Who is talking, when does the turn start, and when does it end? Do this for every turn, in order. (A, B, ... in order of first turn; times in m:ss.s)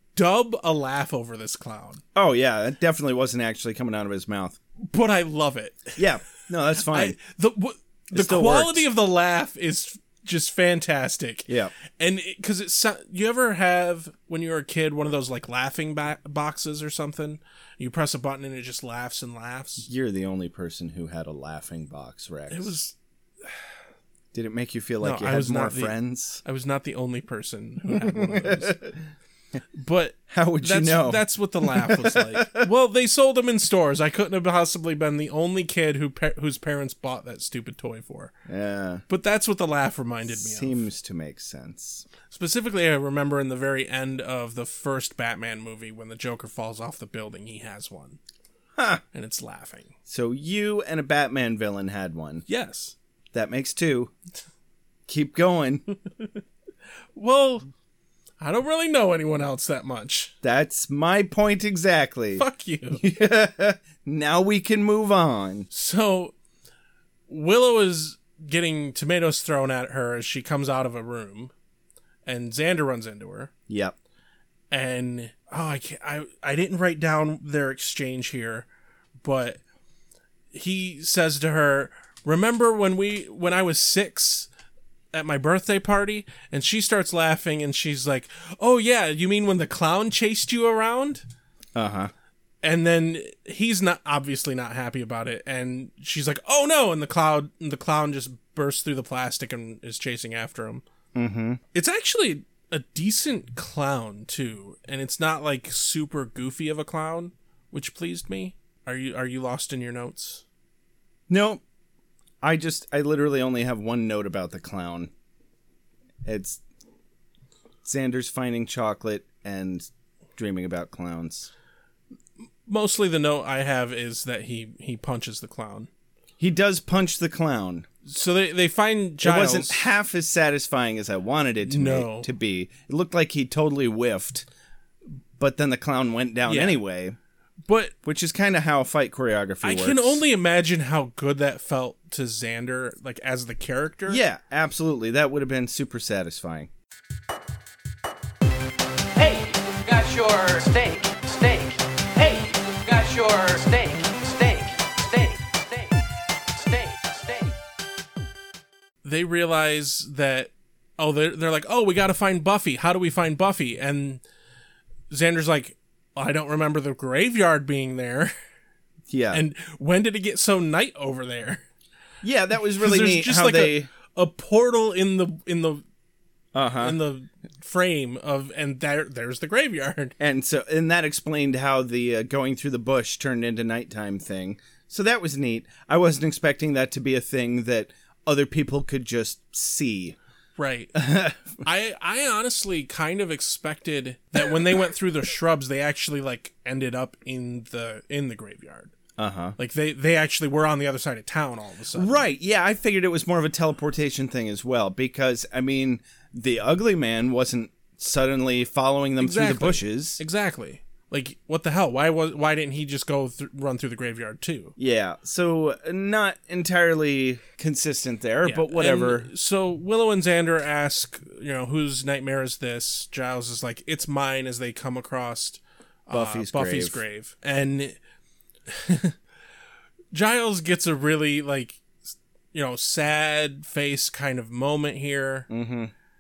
0:00.2-0:02.0 A
0:02.2-0:04.6 B
0:04.8-0:06.0 A
0:06.0-0:07.2 B
0:06.8-0:19.9 A
0:08.1-0:08.9 B
0:11.5-0:11.7 B
0:19.8-0:22.7 B
0:22.5-0:22.9 A
0:24.3-0:26.4 B
0:25.0-0:28.8 A
0:27.9-0:28.9 B
0:29.8-0:38.3 A
0:30.3-0:32.7 B
0:38.5-0:39.0 B
0:39.1-0:40.8 A
0:40.3-0:42.1 B
0:42.3-0:48.2 A
0:48.8-0:49.0 B
0:49.1-0:49.9 A
0:50.1-0:52.4 B
0:52.5-0:53.0 A
0:53.3-0:54.1 B
0:55.1-0:55.8 B
0:57.2-0:57.7 A
0:58.4-1:00.3 A
1:00.4-1:05.7 B
1:02.4-1:03.0 A
1:05.7-1:06.3 A
1:07.3-1:11.5 A
1:12.3-1:13.5 A
1:13.7-1:14.0 B
1:14.7-1:18.7 A
1:19.2-1:19.6 A
1:20.5-1:24.5 A
1:25.1-1:31.2 A
1:31.8-1:32.1 B
1:32.6-1:40.8 A
1:41.2-1:41.6 B
1:41.7-1:50.4 A
1:51.3-1:51.6 B
1:52.4-1:55.1 B
1:56.2-1:56.6 B
1:57.8-2:01.5 B
2:02.7-2:05.9 A
2:06.4-2:07.9 B
2:08.0-2:09.9 A
2:09.2-2:14.5 B
2:11.6-2:12.3 A
2:15.4-2:17.2 B
2:16.5-2:16.8 A
2:17.7-2:17.9 A
2:18.0-2:20.2 B
2:19.6-2:24.2 A
2:24.1-2:26.7 B
2:29.3-2:31.8 C
2:32.9-2:34.6 C
2:39.0-2:44.2 A
2:45.1-2:48.3 A
2:49.1-2:49.4 B
2:49.3-2:51.6 A
2:52.2-2:53.9 B
2:52.8-2:55.8 A
2:56.5-2:57.0 B
2:56.8-3:00.2 A
3:00.2-3:10.2 B
3:10.6-3:11.0 A
3:11.0-3:11.6 B
3:11.6-3:18.9 A
3:19.2-3:19.6 B
3:19.6-3:22.2 A
3:21.9-3:30.2 B
3:29.2-3:34.7 A
3:34.8-3:39.3 B
3:38.4-3:48.0 A
3:46.1-3:47.0 B
3:48.7-3:49.2 A
3:50.1-3:51.8 A
3:52.5-3:55.5 A
3:55.5-3:55.9 B